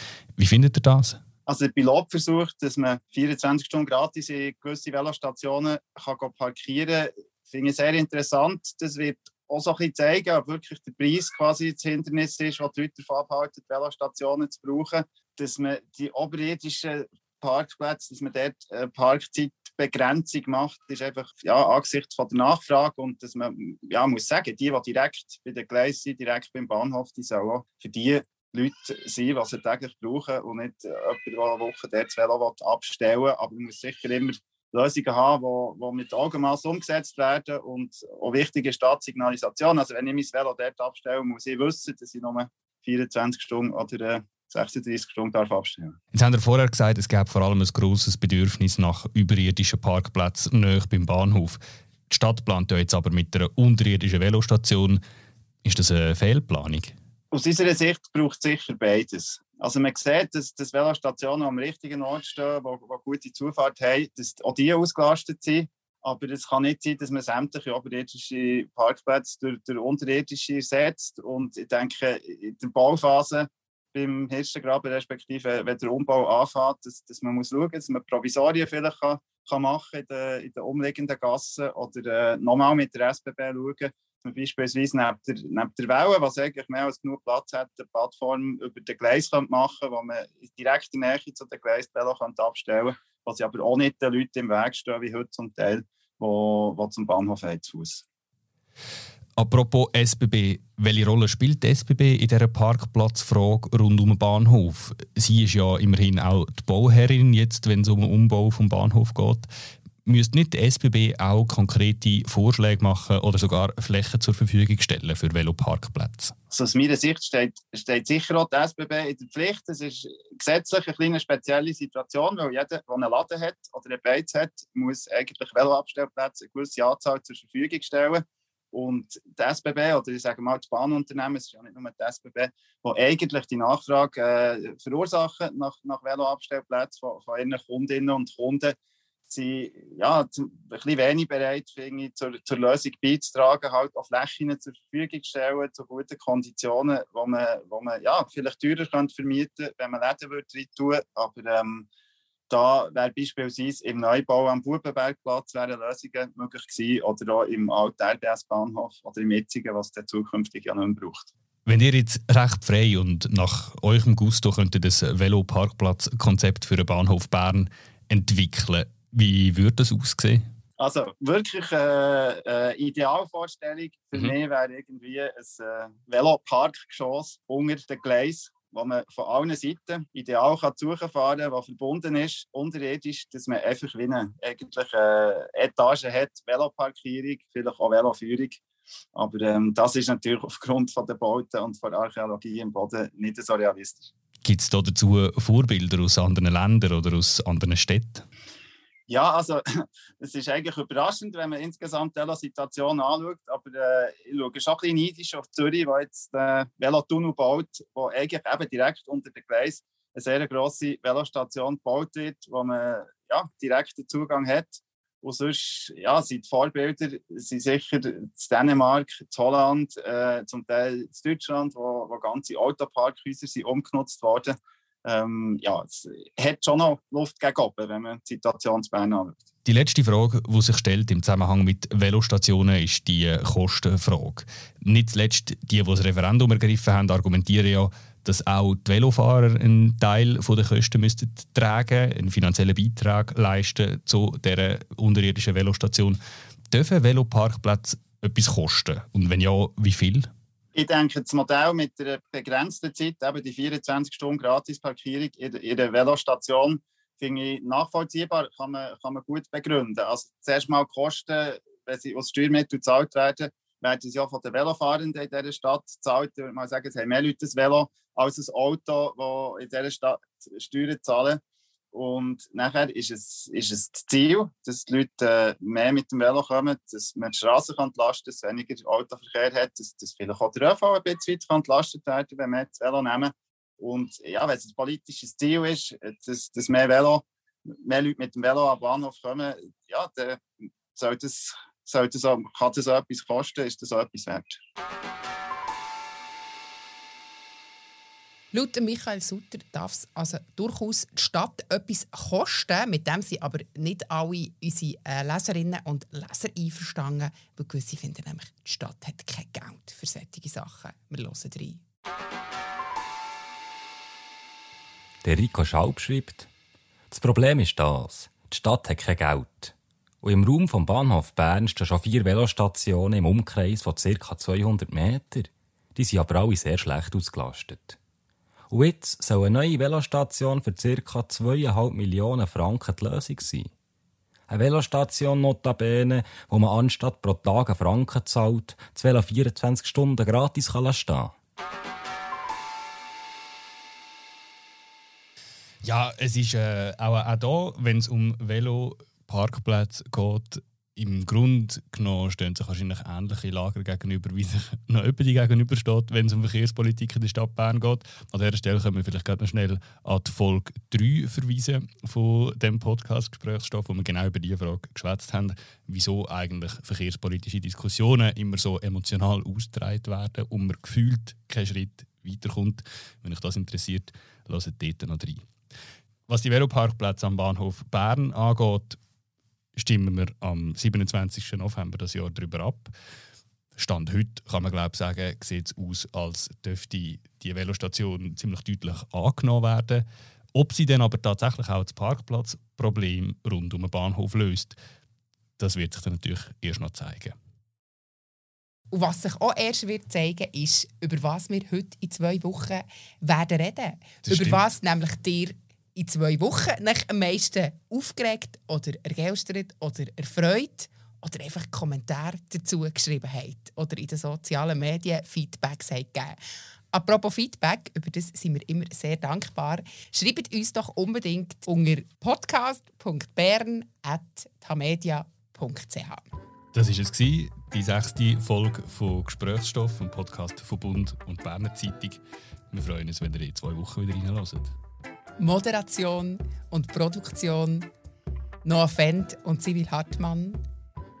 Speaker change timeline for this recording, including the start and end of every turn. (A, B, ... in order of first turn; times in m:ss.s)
0:00.4-0:01.2 A
0:01.5-0:46.0 B
0:46.1-0:55.0 A
0:55.6-0:57.0 A
0:57.3-1:38.0 B
1:39.4-1:49.5 A
1:50.0-1:56.3 A
1:56.5-2:18.8 B
2:19.3-2:31.9 B
2:32.5-2:41.3 B
2:41.6-2:50.5 A
2:50.8-3:08.6 B
3:09.1-3:14.1 B
3:14.4-3:18.2 A
3:19.1-3:49.4 B
3:49.6-4:10.3 A
4:10.7-4:31.4 B
4:31.9-4:50.4 B
4:50.9-4:54.6 B
4:58.5-5:11.8 C
5:15.2-5:16.5 D
5:17.1-5:28.0 D
5:28.7-5:33.7 D
5:34.5-5:41.3 D
5:45.8-6:15.4 A
6:16.3-6:19.0 A
6:19.8-6:22.9 A
6:23.8-6:34.8 A
6:35.6-6:37.3 A
6:38.9-6:56.4 C
6:44.2-6:44.6 A
6:56.9-7:06.2 C
7:06.7-7:14.7 A
7:15.4-7:17.9 C
7:18.6-7:20.6 C